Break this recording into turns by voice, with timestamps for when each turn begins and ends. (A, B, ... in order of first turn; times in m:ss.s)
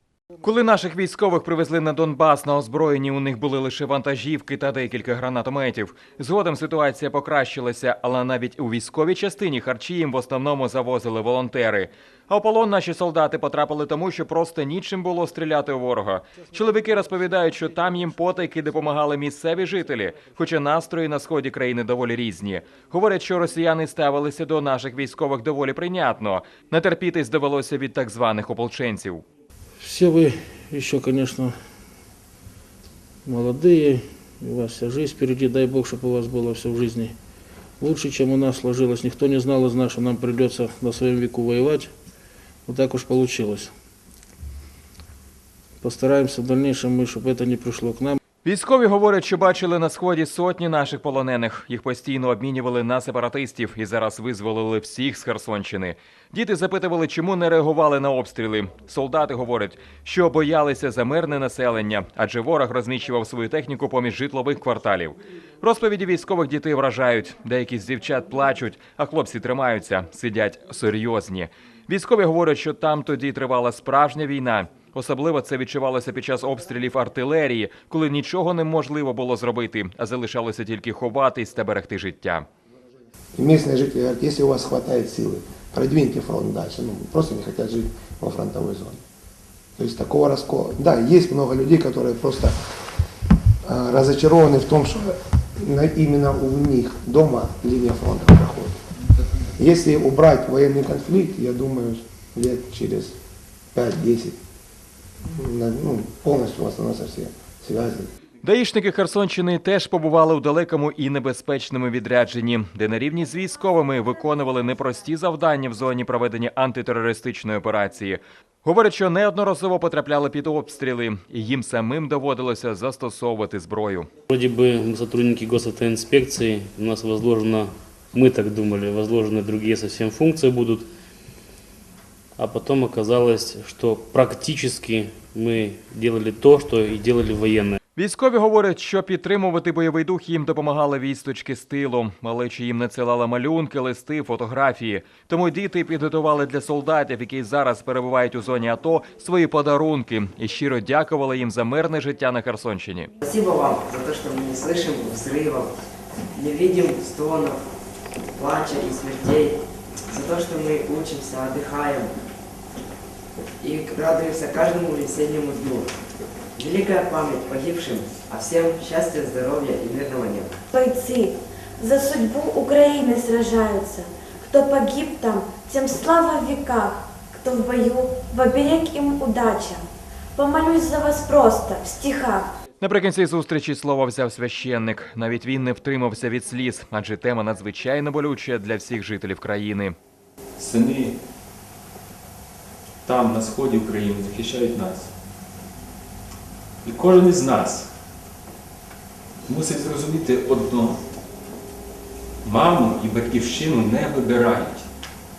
0:00.4-0:29.2 A
0:29.8-0:31.6 B
0:33.2-0:37.2 B
0:37.8-0:41.9 B
0:42.7-0:43.7 B
0:45.8-0:48.2 B
0:48.4-1:22.5 A
1:23.4-1:29.0 C
1:29.8-1:32.5 C
1:33.6-1:38.8 C
1:39.6-1:43.2 C
1:43.7-1:44.4 C
1:45.3-1:48.1 C
1:48.4-2:04.1 A
2:04.3-2:10.9 D
2:12.4-2:17.8 D
2:18.0-2:33.1 A
2:33.2-2:35.7 E
2:36.3-2:37.6 E
2:38.4-2:42.1 E
2:43.6-2:45.9 E
2:46.6-2:50.6 E
2:50.7-3:02.5 F
3:02.8-3:10.0 A
3:10.6-3:11.1 G
3:13.1-3:15.0 G
3:16.8-3:17.9 G
3:19.5-3:21.0 G
3:22.4-3:24.8 G